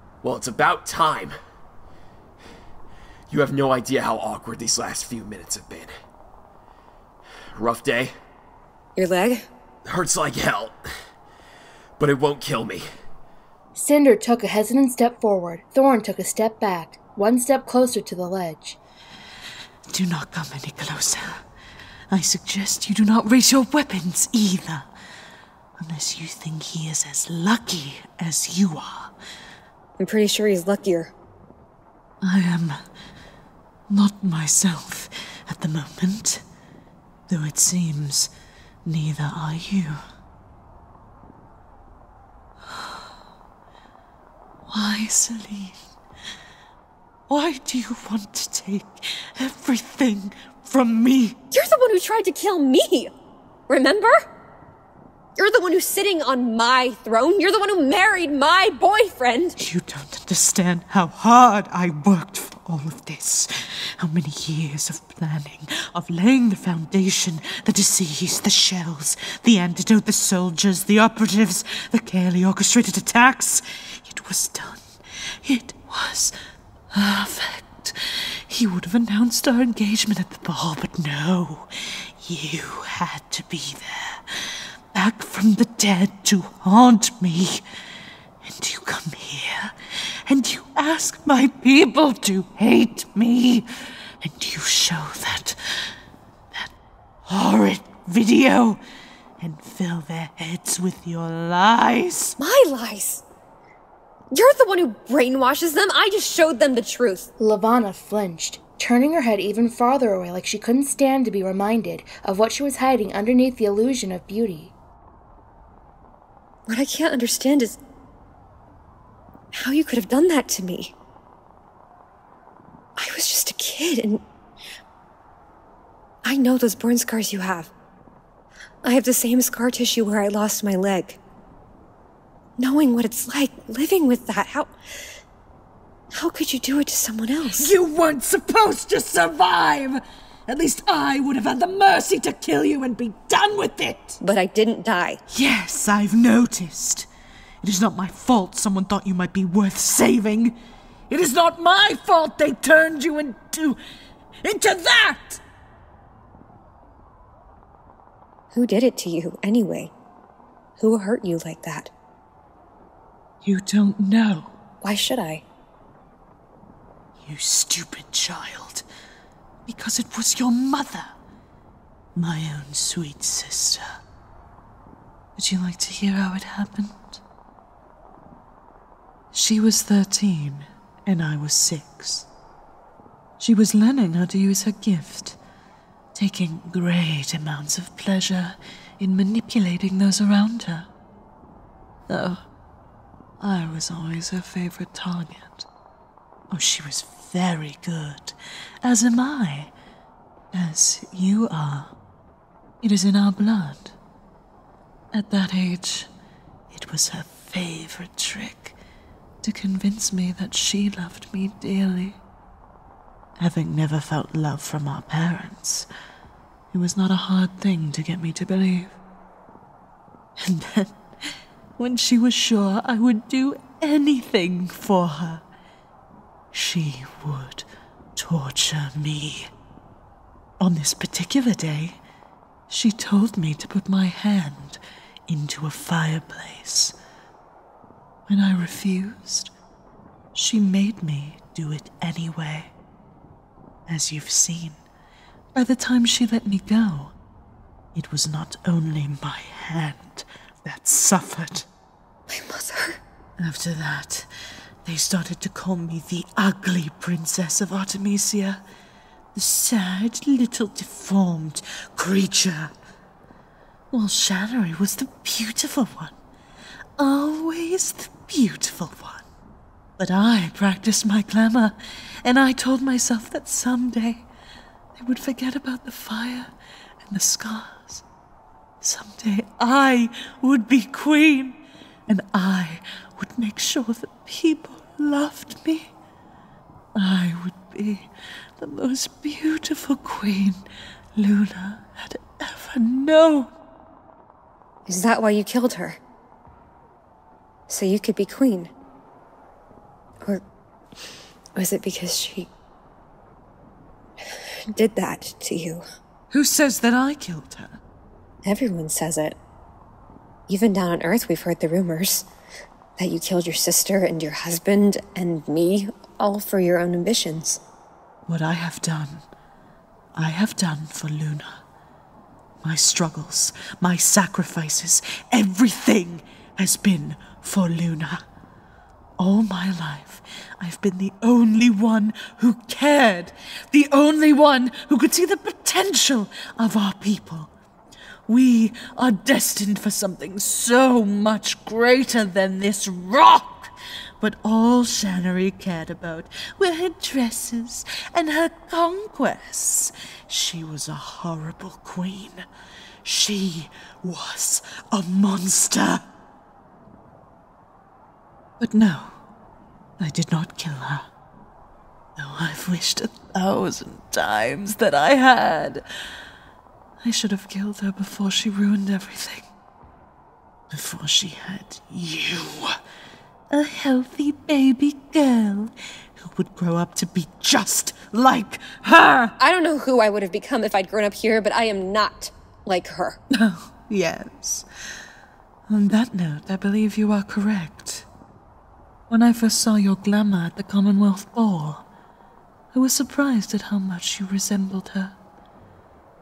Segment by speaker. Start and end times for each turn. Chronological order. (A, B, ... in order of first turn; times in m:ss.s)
0:00.2-0:01.4 A
0:03.3-0:05.9 A
0:07.6-0:08.1 A
0:09.0-0:09.5 B
0:09.9-0:10.8 A
0:12.0-0:12.9 A
0:13.7-0:18.8 C
0:19.9-0:21.5 D
0:22.1-0:24.9 D
0:25.8-0:29.1 D
0:30.0-0:31.1 B
0:32.2-0:32.8 D
0:33.9-0:36.4 D
0:37.3-0:38.3 D
0:38.9-0:40.0 D
0:42.6-0:43.1 D
0:44.7-0:45.8 D
0:47.3-0:51.4 D
0:51.5-0:53.1 B
0:53.7-0:54.2 B
0:55.4-0:59.6 B
0:59.6-1:16.4 D
1:16.9-1:27.6 D
1:28.4-1:29.8 D
1:30.3-1:33.7 D
1:34.2-1:35.9 D
1:37.3-1:38.8 D
1:39.4-1:42.4 D
1:42.4-1:43.2 B
1:44.3-1:47.3 B
1:47.4-1:54.7 C
1:56.7-1:57.8 B
1:59.5-2:00.9 B
2:03.0-2:04.2 B
2:06.2-2:07.7 B
2:08.8-2:11.2 B
2:12.6-2:14.7 B
2:16.1-2:17.7 B
2:17.5-2:24.2 D
2:24.2-2:25.2 B
2:25.3-2:27.1 D
2:27.6-2:30.6 D
2:31.1-2:33.8 D
2:34.4-2:35.4 D
2:38.5-2:39.9 B
2:40.8-2:41.9 B
2:43.4-2:44.6 D
2:44.8-2:45.4 B
2:47.2-2:48.9 D
2:49.7-2:51.2 D
2:52.2-2:53.9 D
2:55.4-2:57.2 D
2:59.3-3:02.3 D
3:03.4-3:05.4 D
3:06.1-3:10.9 D
3:12.1-3:12.4 D
3:13.4-3:15.7 D
3:16.5-3:19.7 D
3:20.5-3:22.0 D
3:22.8-3:24.0 D
3:25.1-3:26.1 D
3:26.7-3:28.8 D
3:29.4-3:32.2 D
3:33.4-3:35.9 D
3:36.7-3:39.0 D
3:40.4-3:45.4 D
3:46.5-3:49.5 D
3:50.6-3:52.0 D
3:52.7-3:57.0 D
3:58.3-3:59.5 D
4:00.4-4:02.7 D
4:03.9-4:04.8 D
4:05.6-4:07.2 D
4:08.0-4:11.7 D
4:12.3-4:13.0 B
4:13.4-4:14.3 D
4:14.8-4:18.6 D
4:19.3-4:22.7 D
4:23.9-4:26.2 D
4:27.0-4:29.3 D
4:30.0-4:34.3 D
4:35.0-4:38.0 D
4:38.8-4:45.9 D
4:47.0-4:53.5 D
4:54.9-4:56.0 B
4:57.7-4:58.7 B
5:01.6-5:02.5 B
5:04.7-5:05.8 B
5:06.3-5:07.8 D
5:08.4-5:09.4 B
5:10.5-5:12.3 B
5:13.0-5:17.6 B
5:18.3-5:19.3 D
5:20.1-5:21.6 D
5:22.6-5:28.2 D
5:29.2-5:37.5 D
5:38.3-5:52.5 D
5:53.0-5:56.1 D
5:58.6-5:59.2 D
6:00.0-6:01.1 D
6:02.2-6:05.9 D
6:07.0-6:09.5 D
6:10.7-6:12.8 D
6:13.5-6:19.4 D
6:19.4-6:23.2 B
6:23.3-6:24.7 D
6:25.7-6:28.1 D
6:29.1-6:31.9 D
6:32.7-6:35.2 D